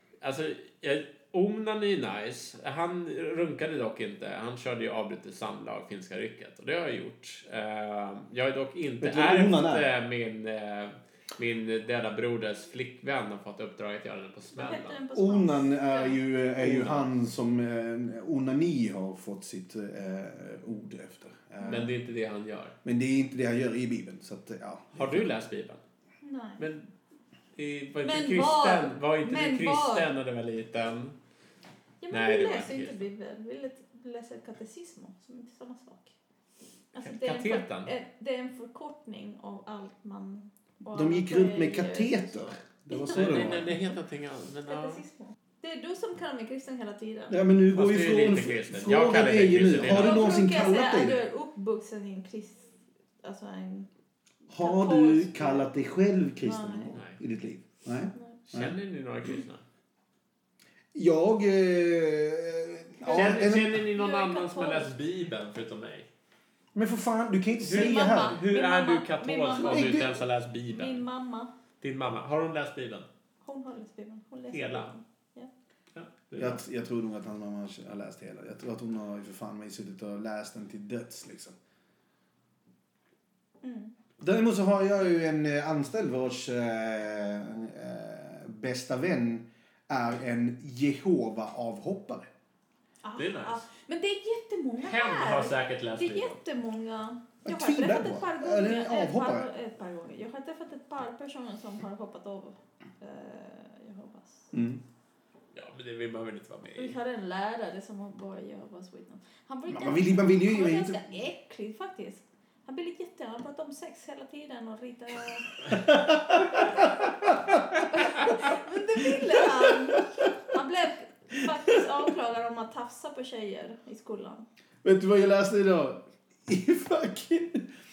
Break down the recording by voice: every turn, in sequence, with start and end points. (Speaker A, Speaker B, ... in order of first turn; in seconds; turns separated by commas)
Speaker A: 0.2-15.0, Speaker B: 9.0-9.8, Speaker C: 14.5-16.2, Speaker B: 15.1-21.9, Speaker A: 16.6-17.1, Speaker A: 21.6-22.7, Speaker B: 22.8-25.3, Speaker A: 24.9-25.8, Speaker C: 26.2-26.6, Speaker A: 26.6-26.9, Speaker A: 27.6-31.1, Speaker C: 28.0-30.1, Speaker C: 32.0-36.1, Speaker A: 32.1-33.0, Speaker C: 36.9-43.9, Speaker A: 37.0-37.9, Speaker B: 40.9-43.8, Speaker A: 42.9-45.0, Speaker C: 44.7-47.4, Speaker B: 47.3-51.2, Speaker A: 47.7-50.3, Speaker C: 49.9-52.7, Speaker C: 53.2-53.9, Speaker B: 54.5-58.7, Speaker C: 54.6-55.7, Speaker C: 56.4-57.0, Speaker A: 56.9-57.2, Speaker A: 58.5-59.6, Speaker B: 60.9-63.8, Speaker C: 63.0-64.9, Speaker A: 63.1-66.1, Speaker B: 66.7-68.4, Speaker C: 67.6-70.1, Speaker A: 67.6-71.0, Speaker B: 69.5-70.1, Speaker C: 70.7-71.5, Speaker A: 71.8-73.1, Speaker C: 73.4-75.5, Speaker A: 74.5-74.9, Speaker A: 75.9-76.6, Speaker B: 76.3-81.5, Speaker C: 83.6-83.9, Speaker B: 84.2-92.3, Speaker C: 93.0-104.5, Speaker A: 93.2-93.6, Speaker A: 94.8-96.4, Speaker B: 97.4-99.5, Speaker B: 104.5-104.8, Speaker A: 105.5-106.9, Speaker C: 106.8-115.5, Speaker B: 109.7-111.0, Speaker B: 115.7-118.1, Speaker C: 116.5-116.8, Speaker C: 117.5-124.5, Speaker B: 119.0-120.3, Speaker B: 124.8-127.7